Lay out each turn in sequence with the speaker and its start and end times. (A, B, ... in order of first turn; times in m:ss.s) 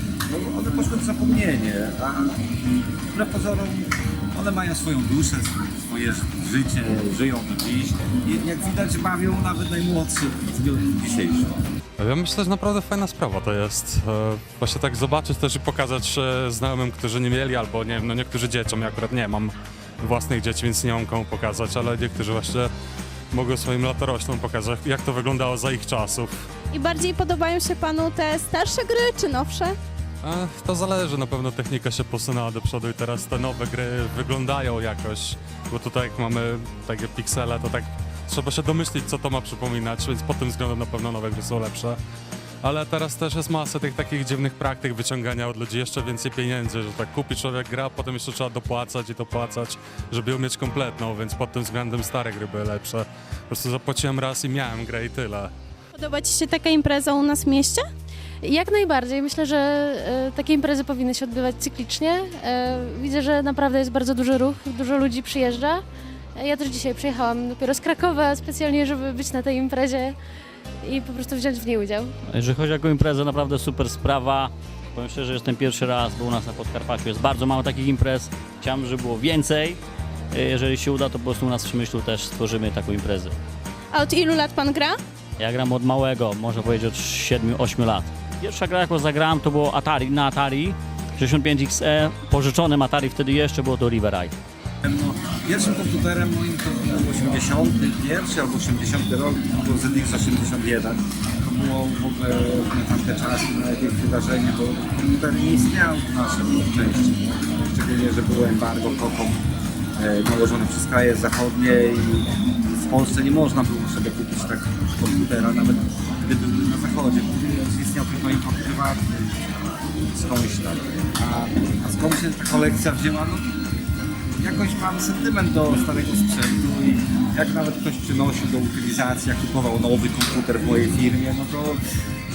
0:00.3-0:02.6 A
0:03.1-0:11.6 A
0:12.0-0:22.7 B
0:23.3-0:26.5 B
0:26.7-0:29.8 C
0:30.2-0:42.0 B
0:42.6-0:55.5 B
0:56.0-0:57.8 C
0:58.4-1:05.8 D
1:06.4-1:10.2 D
1:10.8-1:12.1 D
1:12.4-1:19.7 E
1:20.4-1:23.3 E
1:23.9-1:25.0 C
1:25.4-1:34.3 E
1:34.8-1:49.4 A
1:50.0-1:59.4 A
2:00.1-2:03.5 A
2:04.4-2:11.8 A